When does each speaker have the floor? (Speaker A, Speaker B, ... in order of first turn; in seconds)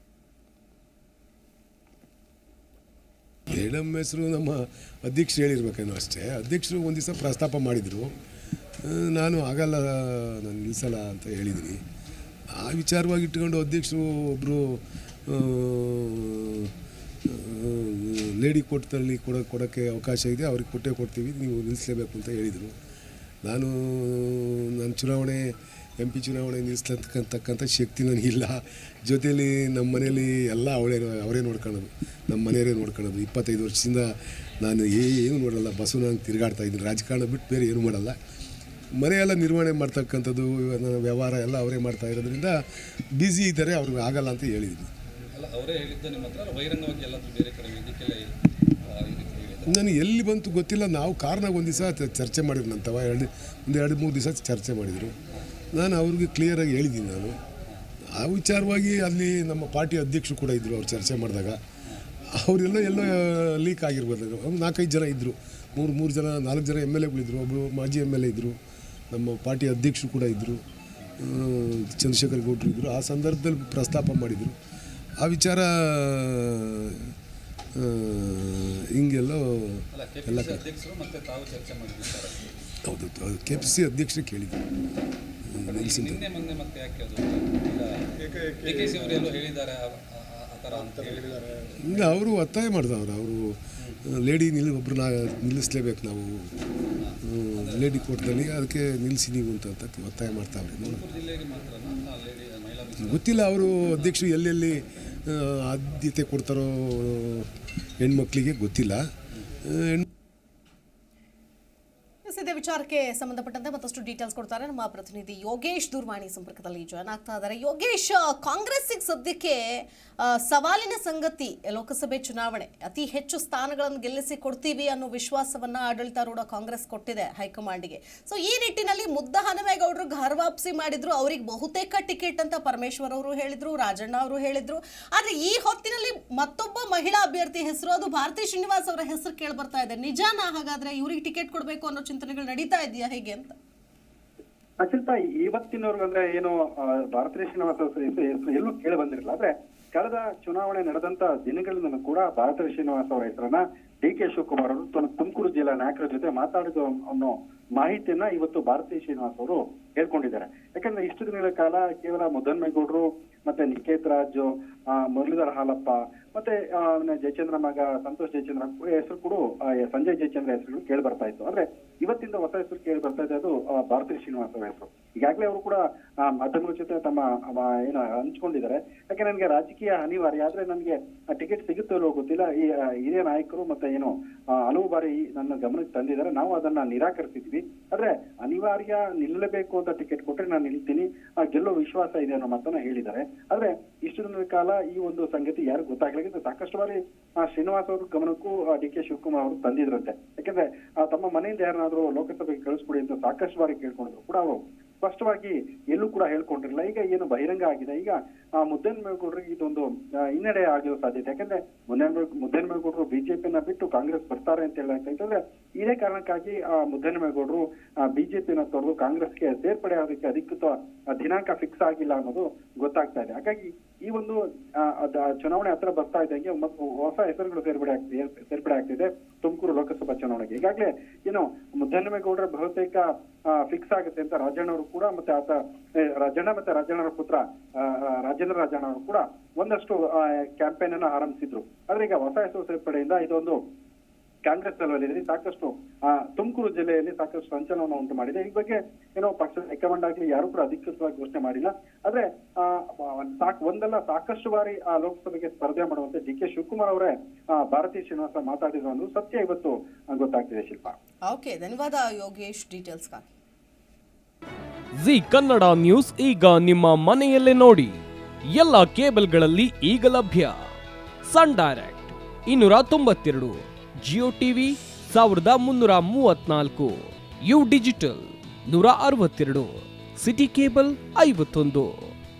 Speaker A: 3.5-8.1, 8.8-11.8, 12.5-16.7, 17.2-22.7, 23.4-38.1, 39.0-42.6, 43.1-44.9, 49.6-55.1, 55.7-57.4, 58.1-61.6, 62.3-68.5, 69.1-70.6, 71.2-74.5, 75.2-77.1, 77.7-80.6, 82.8-84.6, 85.5-86.2, 91.8-96.5, 97.2-101.0, 103.0-109.0, 109.6-110.0
Speaker B: 45.3-48.3, 48.9-49.8, 79.9-82.5, 85.6-92.0, 97.0-98.1, 100.7-103.4
Speaker C: 112.2-143.6, 261.3-263.3
Speaker D: 144.8-184.1, 184.6-243.6, 244.4-260.9
Speaker E: 265.0-270.7, 271.2-282.1